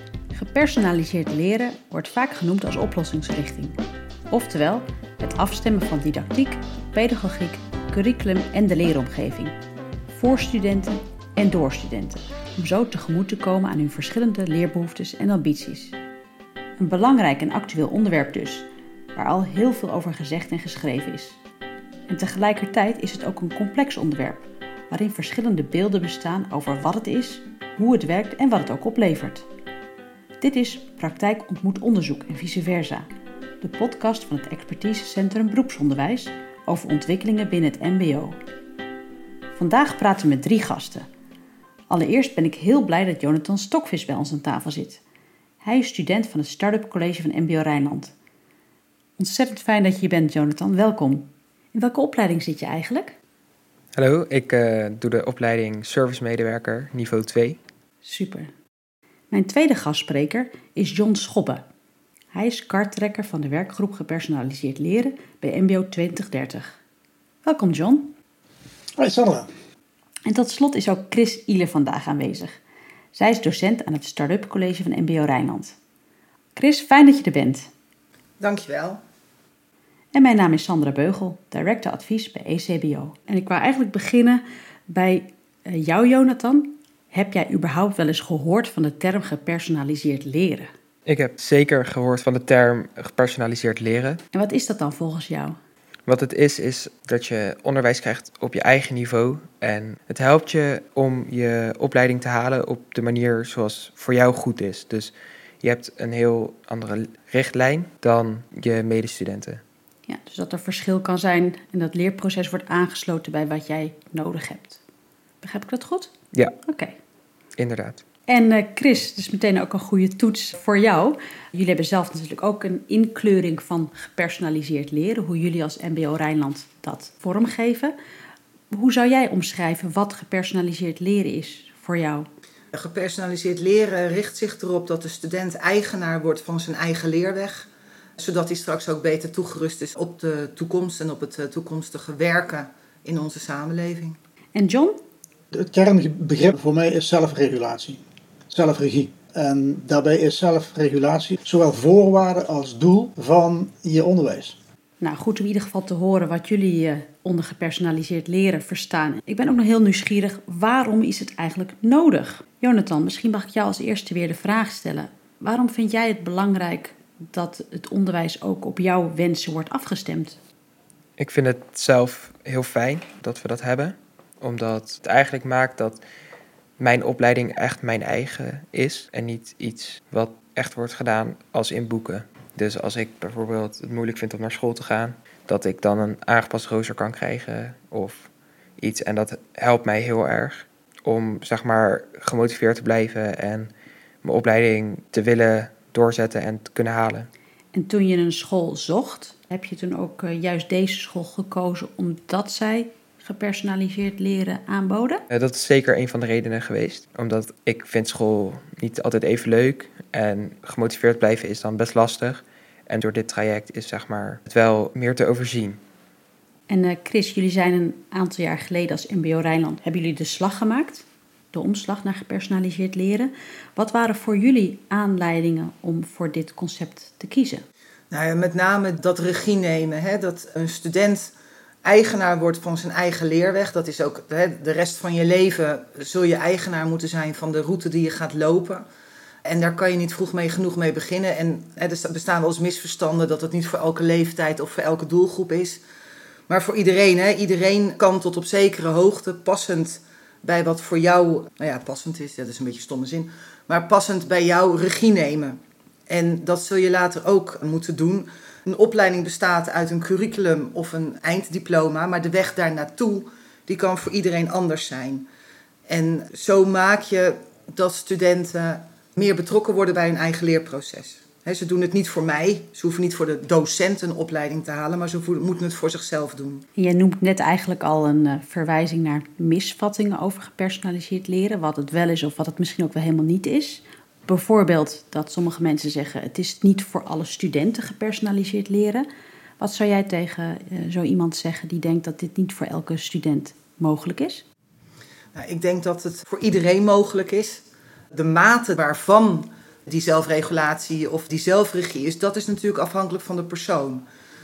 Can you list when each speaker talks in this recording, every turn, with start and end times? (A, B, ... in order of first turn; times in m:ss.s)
0:00.3-0:09.6 A
0:10.1-0:16.0 A
0:16.8-0:21.4 A
0:22.1-0:29.5 A
0:30.4-0:33.1 A
0:33.6-0:38.4 A
0:39.5-0:41.1 A
0:41.9-0:45.0 A
0:45.6-0:48.1 A
0:49.2-0:53.2 A
0:53.9-0:57.6 B
0:58.0-0:58.5 A
0:59.3-1:01.6 A
1:02.3-1:06.8 A
1:07.4-1:08.1 A
1:09.0-1:09.5 C
1:10.3-1:12.6 A
1:13.1-1:15.8 A
1:16.6-1:17.7 A
1:18.4-1:19.0 D
1:20.1-1:30.7 A
1:31.0-1:34.2 B
1:34.3-1:35.6 A
1:36.1-1:45.1 B
1:45.6-1:49.6 B
1:50.1-1:54.8 A
1:55.4-1:56.1 A
1:56.6-1:57.0 A
1:57.6-1:58.0 B
1:58.3-2:07.9 A
2:08.7-2:12.3 A
2:12.7-2:24.2 D
2:24.5-2:25.0 A
2:25.5-2:34.6 C
2:35.0-2:50.4 A
2:51.2-2:56.0 B
2:56.8-3:13.7 B
3:14.2-3:17.3 B
3:17.7-3:25.2 A
3:25.3-3:35.8 B
3:36.7-3:47.6 A
3:48.1-3:51.3 D
3:51.8-3:58.8 D
3:59.4-4:05.8 D
4:06.5-4:25.3 D
4:25.9-4:36.6 D
4:36.8-4:49.1 A
4:49.6-4:54.4 A
4:55.3-4:57.6 D
4:58.1-5:04.0 D